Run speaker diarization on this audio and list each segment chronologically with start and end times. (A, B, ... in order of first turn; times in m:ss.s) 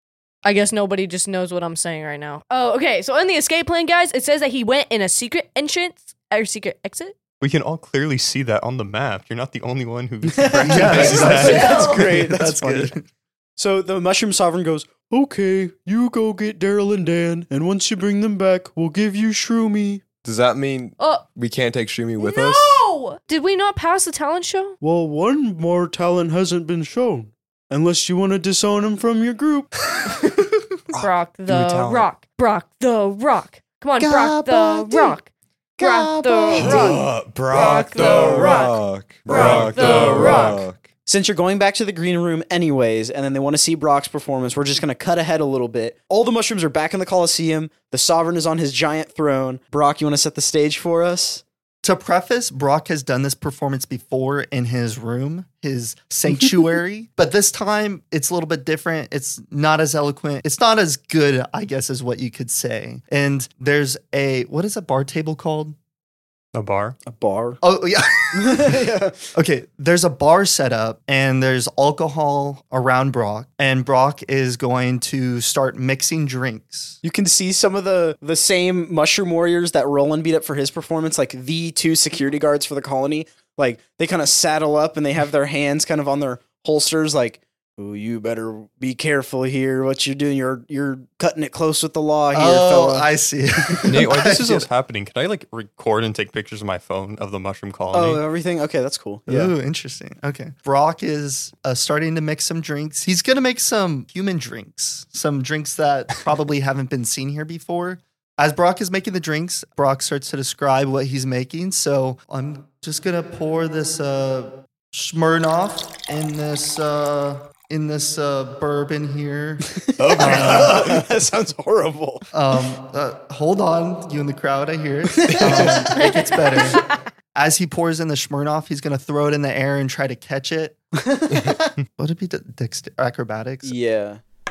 0:00.4-0:07.2 A
0:07.4-0:12.3 B
0:10.3-0:12.9 C
0:10.6-0:13.0 D
0:11.0-0:12.0 A
0:13.6-0:15.0 C
0:15.1-0:20.0 E
0:20.2-0:22.8 F
0:21.0-0:21.2 A
0:22.2-0:24.8 A
0:24.8-0:29.7 E
0:30.9-0:40.6 A
0:31.5-0:32.0 B
0:34.0-0:35.1 C
0:35.8-0:37.0 C
0:36.5-0:40.8 F
0:38.0-0:38.6 C
0:39.3-0:40.6 B
0:41.1-0:51.4 C
0:51.8-1:05.8 D
1:06.5-1:07.0 B
1:07.1-1:07.6 C
1:07.6-1:08.8 D
1:08.3-1:09.2 C
1:09.3-1:17.0 D
1:17.0-1:33.1 C
1:32.3-1:34.7 D
1:33.9-1:38.2 B
1:37.9-1:39.5 C
1:39.3-2:01.0 D
2:00.0-2:02.3 C
2:00.0-2:00.9 F
2:02.3-2:10.8 D
2:05.2-2:06.0 C
2:05.9-2:06.8 A
2:11.1-2:11.6 C
2:11.3-2:13.8 D
2:13.6-2:14.2 C